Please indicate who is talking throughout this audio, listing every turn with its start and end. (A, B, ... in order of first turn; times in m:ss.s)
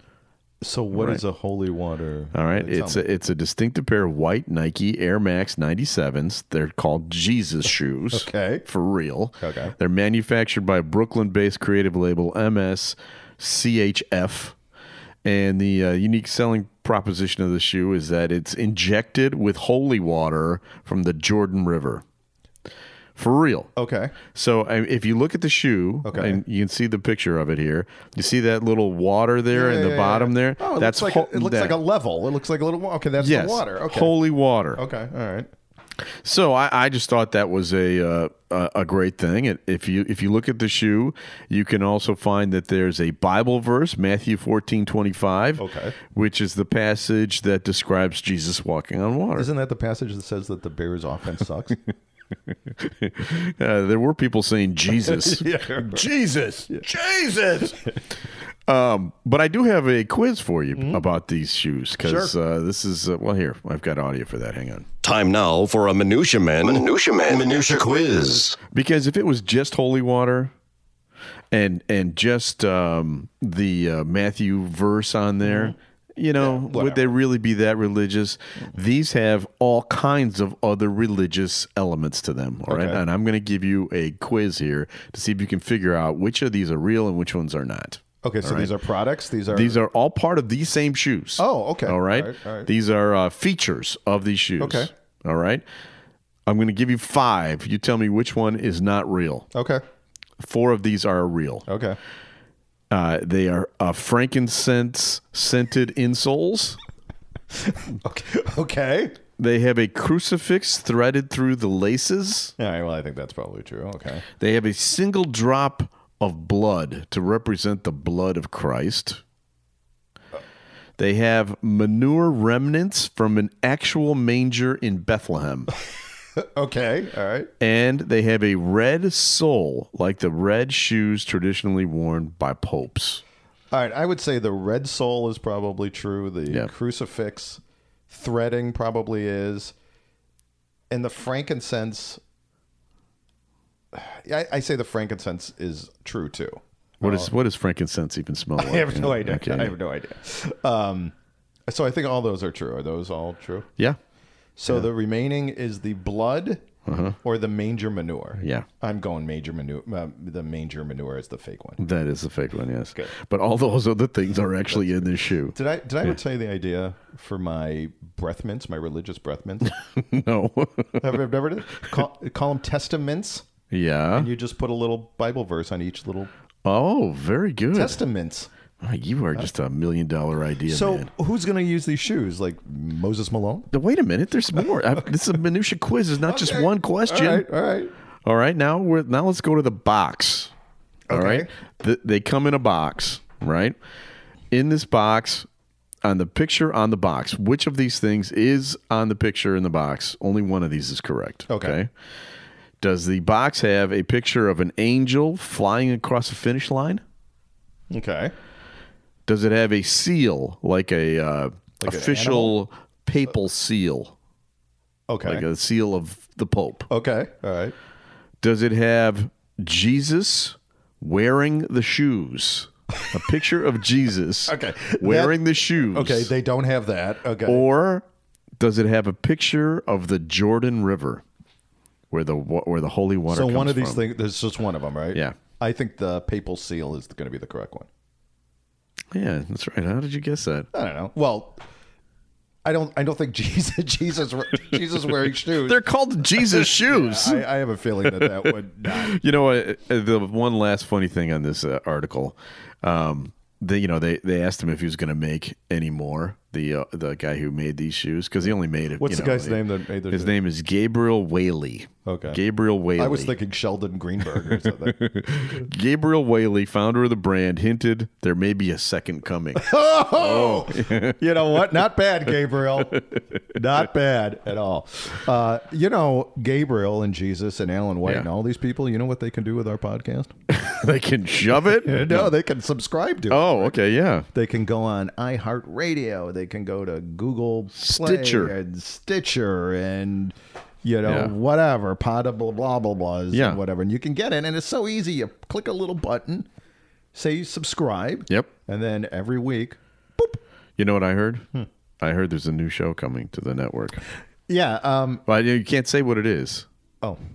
0:00.6-0:03.0 A
0:00.9-0:01.2 B
0:02.3-0:14.5 B
0:08.1-0:08.6 A
0:09.4-0:09.7 A
0:15.2-0:22.0 B
0:23.2-0:23.7 B
0:23.8-0:24.1 A
0:24.3-0:31.8 B
0:26.0-0:26.4 A
0:29.5-0:34.1 A
0:33.2-0:34.8 B
0:34.7-0:35.5 A
0:36.2-0:49.5 B
0:45.6-0:45.9 A
0:49.3-0:51.8 A
0:52.8-0:57.8 B
0:55.0-0:56.1 A
0:58.7-1:04.8 B
1:00.7-1:01.0 A
1:02.0-1:02.3 A
1:05.0-1:08.6 C
1:08.7-1:10.5 B
1:11.5-1:28.7 B
1:15.4-1:15.7 A
1:16.4-1:17.1 A
1:22.7-1:23.0 A
1:28.2-1:29.8 A
1:29.5-1:35.6 B
1:31.4-1:32.7 A
1:34.6-1:34.9 A
1:36.4-1:39.5 B
1:39.5-1:39.8 A
1:40.4-1:41.6 B
1:41.7-1:42.0 A
1:42.9-1:46.8 B
1:47.7-1:49.2 A
1:49.4-1:52.5 B
1:52.6-1:54.2 A
1:54.4-1:59.2 B
2:01.0-2:05.7 B
2:06.4-2:07.5 A
2:07.6-2:13.2 B
2:13.7-2:19.7 A
2:20.9-2:22.2 A
2:23.9-2:27.3 A
2:27.0-2:29.8 B
2:28.6-2:31.1 A
2:31.7-2:33.7 A
2:34.6-2:36.6 A
2:36.9-2:37.2 B
2:37.2-2:41.8 A
2:38.4-2:38.6 B
2:41.8-2:46.1 B
2:44.7-2:49.8 A
2:49.7-2:51.2 B
2:51.0-2:53.4 A
2:53.7-2:54.3 B
2:54.1-2:56.3 A
2:56.6-2:58.0 B
2:57.7-2:58.5 A
2:58.8-3:01.1 B
3:00.7-3:03.7 A
3:03.7-3:07.5 B
3:06.2-3:07.9 A
3:08.2-3:10.5 B
3:11.1-3:11.5 A
3:11.1-3:13.8 B
3:14.5-3:15.5 B
3:16.0-3:21.9 B
3:21.5-3:21.8 A
3:22.8-3:27.0 B
3:27.9-3:28.3 A
3:29.3-3:34.1 B
3:31.8-3:32.6 A
3:35.1-3:35.4 A
3:35.2-3:36.9 B
3:36.9-3:37.7 A
3:38.4-3:46.3 B
3:44.5-3:47.6 A
3:47.4-3:48.0 B
3:48.6-3:51.2 B
3:52.1-3:54.0 B
3:53.3-3:57.9 A
3:59.1-4:00.7 B
4:00.7-4:01.6 A
4:02.6-4:05.8 A
4:05.4-4:07.4 B
4:06.3-4:09.2 A
4:08.0-4:23.4 B
4:19.0-4:20.3 A
4:22.0-4:22.4 A
4:23.0-4:25.0 A
4:24.4-4:31.2 B
4:29.6-4:40.3 A
4:33.0-4:33.2 B
4:40.5-4:42.3 B
4:41.8-4:43.8 A
4:43.3-4:44.3 B
4:44.3-4:56.5 A
4:47.7-4:48.5 B
4:51.0-4:51.3 B
4:53.3-4:53.6 B
4:57.1-5:00.4 A
5:00.8-5:01.4 B
5:02.0-5:04.0 B
5:04.5-5:05.2 A
5:05.3-5:06.6 B